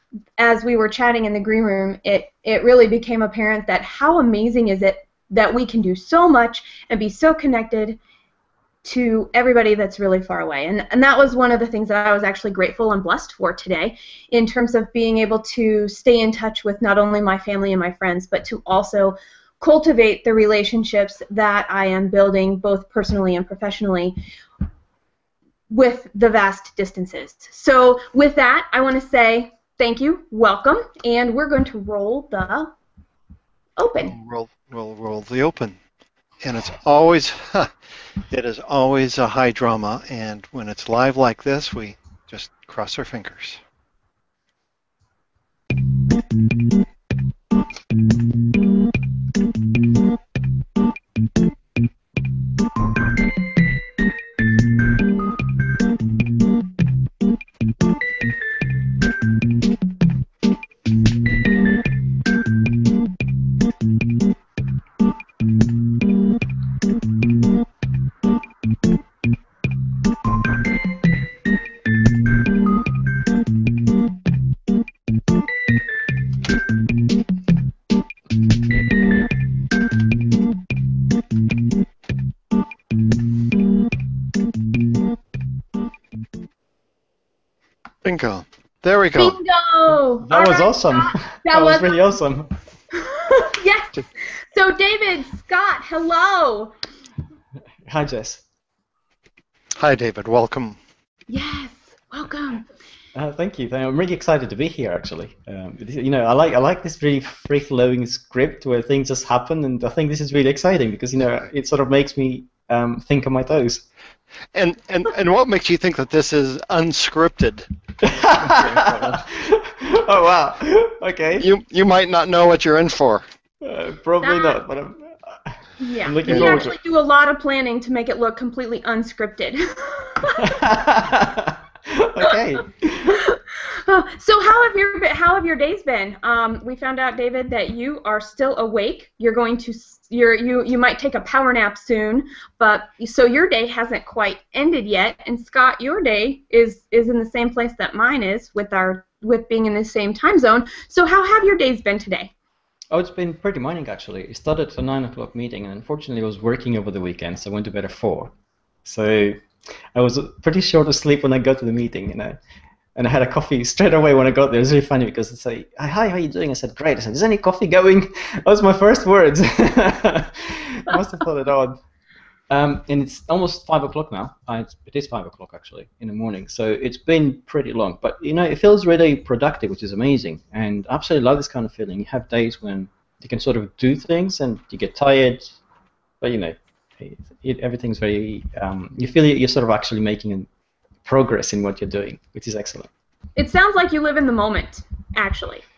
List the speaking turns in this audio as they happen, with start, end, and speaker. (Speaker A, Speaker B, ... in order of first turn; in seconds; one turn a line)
Speaker A: 0.4-8.0
Speaker A: 8.8-24.1
Speaker A: 25.7-32.7
Speaker A: 33.8-34.1
Speaker B: 34.1-35.8
Speaker B: 36.4-37.7
Speaker B: 38.3-43.6
Speaker B: 88.0-89.4
Speaker A: 89.2-92.0
Speaker C: 90.2-92.5
Speaker A: 93.0-93.9
Speaker A: 94.5-96.7
Speaker C: 97.9-98.4
Speaker B: 99.8-100.8
Speaker A: 101.3-102.6
Speaker C: 103.1-113.8
Speaker B: 114.5-117.7
Speaker C: 118.0-121.5
Speaker B: 118.3-119.3
Speaker B: 121.4-123.2
Speaker C: 123.6-126.8
Speaker A: 124.2-124.6
Speaker A: 125.8-130.5
Speaker B: 126.3-126.6
Speaker C: 130.3-133.2
Speaker A: 133.1-152.3
Speaker C: 152.9-158.3
Speaker C: 158.8-159.4
Speaker C: 159.9-162.4
Speaker C: 162.9-171.8
Speaker C: 172.5-185.5
Speaker C: 186.2-190.5
Speaker C: 191.0-192.9
Speaker A: 193.3-195.6